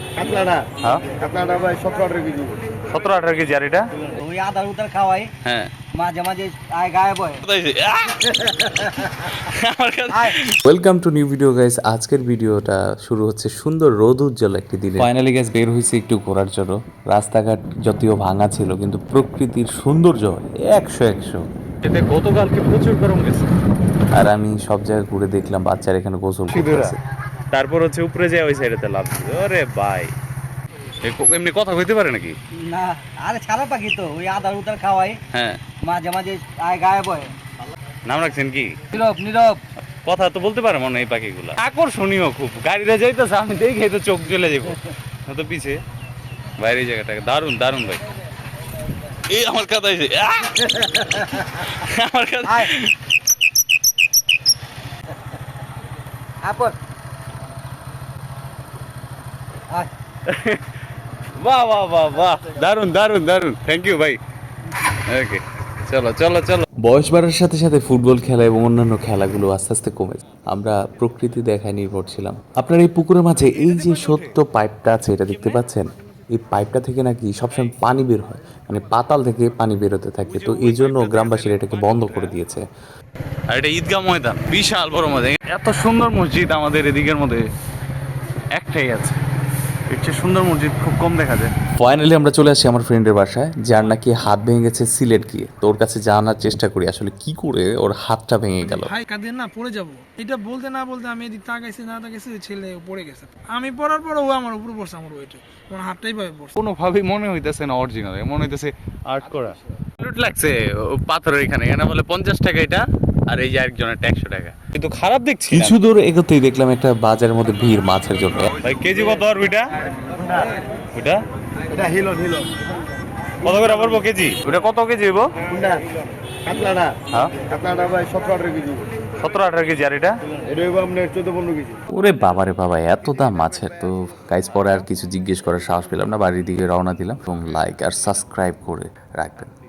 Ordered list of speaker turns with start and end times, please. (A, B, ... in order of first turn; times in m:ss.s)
0:00.8-0:01.1 A
0:01.5-0:02.3 B
0:02.9-0:03.9 A
0:04.2-0:05.3 C
0:05.4-0:05.7 A
0:06.0-0:07.4 C
0:07.4-0:10.6 A
0:10.1-0:10.4 C
0:10.6-0:21.4 D
0:21.8-0:23.5 A
0:24.1-0:27.0 D
0:26.5-0:27.0 A
0:27.5-0:30.1 A
0:31.0-0:32.4 A
0:32.6-0:35.2 C
0:35.3-0:35.6 A
0:35.8-0:37.3 C
0:38.0-0:38.8 A
0:38.9-0:39.6 C
0:40.0-0:45.8 A
0:46.6-0:48.0 A
0:49.3-0:52.9 A
0:50.8-0:51.5 C
0:52.4-0:52.7 C
0:56.4-0:56.8 C
1:00.2-1:00.6 A
1:01.4-1:04.2 A
1:04.9-1:06.7 A
1:06.8-1:22.7 D
1:20.4-1:21.9 A
1:23.5-1:27.4 A
1:28.5-1:29.2 A
1:29.9-1:31.5 A
1:31.8-1:38.9 D
1:38.6-1:46.5 E
1:46.6-1:55.8 A
1:55.5-1:58.5 D
1:58.6-1:59.7 A
2:00.9-2:01.2 A
2:03.4-2:05.3 A
2:08.0-2:08.6 B
2:09.2-2:10.2 A
2:10.6-2:11.4 B
2:11.9-2:19.5 D